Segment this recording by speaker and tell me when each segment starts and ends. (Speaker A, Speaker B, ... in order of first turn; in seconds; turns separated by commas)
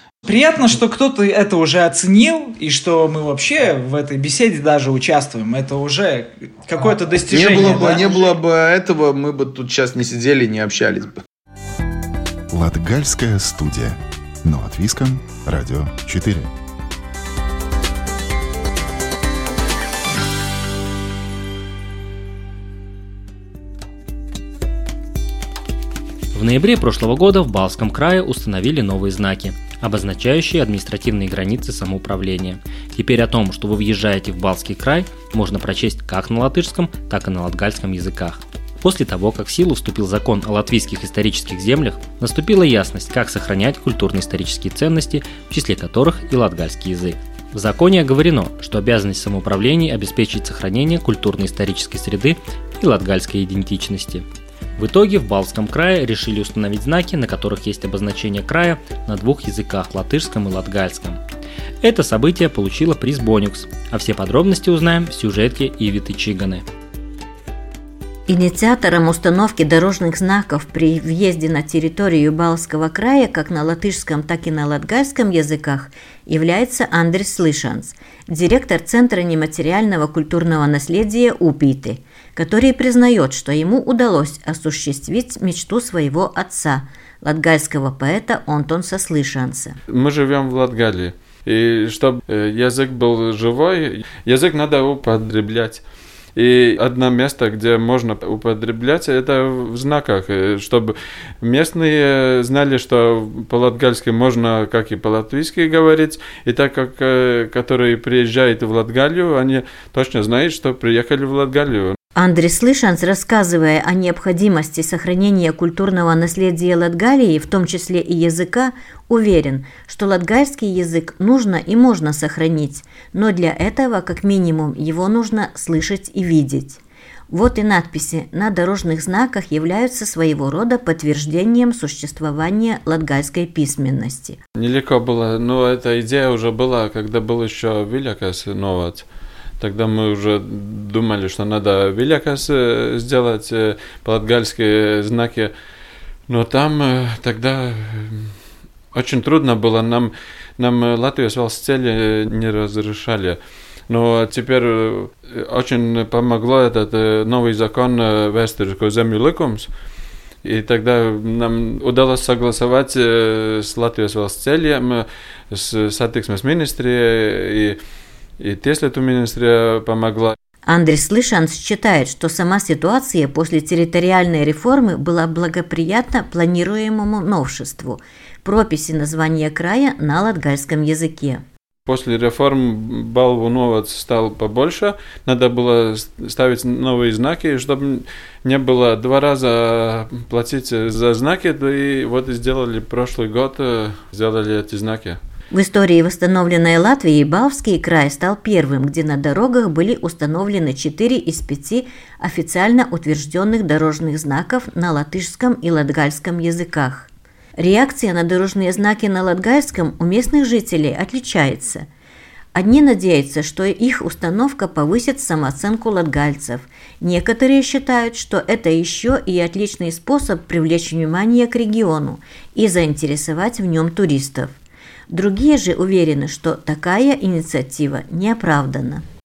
Speaker A: 0.2-8.1, Speaker B: 7.3-11.2, Speaker C: 12.5-16.5, Speaker D: 26.3-54.2, Speaker D: 54.8-61.2, Speaker D: 61.8-66.6, Speaker E: 68.3-89.8, Speaker F: 89.9-111.9, Speaker E: 112.1-126.8, Speaker E: 127.3-134.4, Speaker F: 134.6-145.5, Speaker F: 146.3-159.8, Speaker F: 160.4-167.8, Speaker F: 168.4-170.3, Speaker E: 170.7-181.4, Speaker F: 181.8-195.2, Speaker E: 195.5-211.9, Speaker E: 212.5-224.6, Speaker E: 225.1-229.0